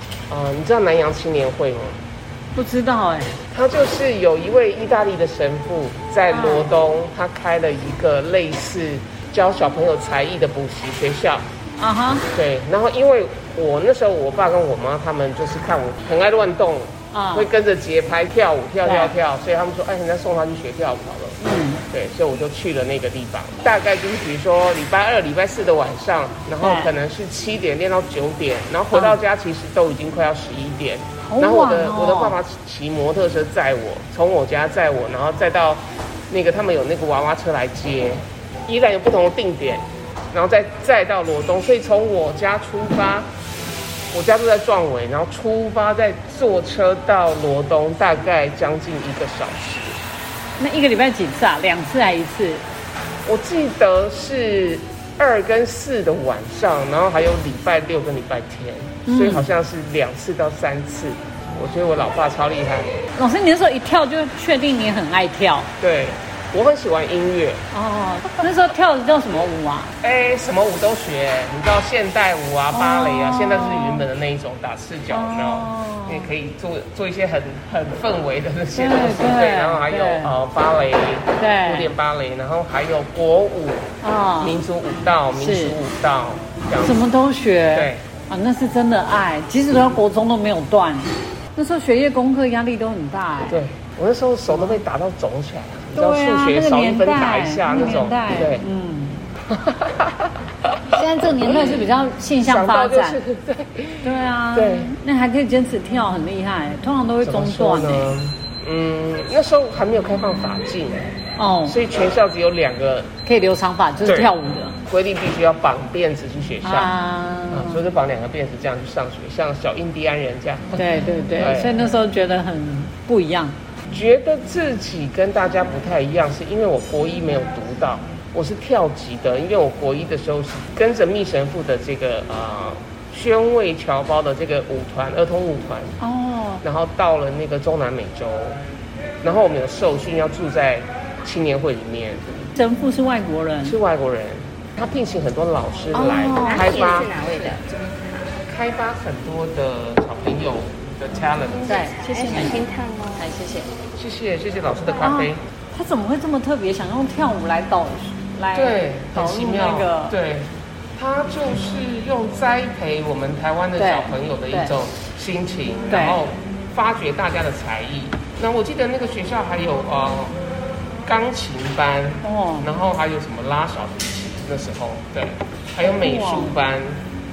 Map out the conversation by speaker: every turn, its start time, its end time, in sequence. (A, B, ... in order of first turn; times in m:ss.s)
0:00.3-0:02.0 A
0:02.5-0:03.4 B
0:03.5-0:11.4 A
0:06.3-0:06.7 B
0:11.8-0:12.3 B
0:12.3-0:21.4 A
0:17.1-0:17.5 B
0:18.8-0:19.1 B
0:21.4-0:21.8 B
0:21.9-0:43.3 A
0:26.6-0:26.9 B
0:31.2-0:32.4 B
0:44.1-0:50.0 A
0:50.6-0:52.6 B
0:53.2-1:03.0 A
0:59.1-0:59.5 B
1:03.2-1:05.7 B
1:05.8-1:07.6 A
1:07.7-1:10.0 B
1:10.0-1:27.0 A
1:12.7-1:14.0 B
1:15.1-1:16.3 B
1:18.7-1:20.3 B
1:21.4-1:21.9 B
1:24.0-1:24.5 B
1:25.4-1:25.8 B
1:26.8-1:33.6 B
1:27.7-1:28.0 A
1:33.4-1:38.6 A
1:34.5-1:34.8 B
1:35.9-1:39.2 B
1:39.5-1:41.9 A
1:40.9-1:43.2 B
1:42.4-1:44.9 A
1:44.0-1:48.1 B
1:47.2-1:51.1 A
1:51.4-1:51.8 B
1:51.6-1:53.1 A
1:53.2-1:54.8 B
1:54.0-1:54.3 A
1:54.9-1:56.9 A
1:56.6-1:57.8 B
1:57.5-2:01.7 A
2:00.8-2:03.5 B
2:03.9-2:16.0 A
2:16.0-2:16.6 B
2:16.6-2:18.6 A
2:19.2-2:22.5 A
2:22.6-2:23.8 B
2:23.6-2:27.2 A
2:25.9-2:27.5 B
2:26.0-2:28.0 C
2:28.4-2:31.8 A
2:31.5-2:33.3 C
2:31.7-2:32.6 B
2:33.2-2:33.7 B
2:34.0-2:35.4 A
2:35.0-2:40.1 B
2:38.5-2:50.4 A
2:43.8-2:44.7 B
2:45.9-2:46.2 B
2:51.0-2:57.0 A
2:52.2-2:52.7 B
2:55.8-2:56.5 B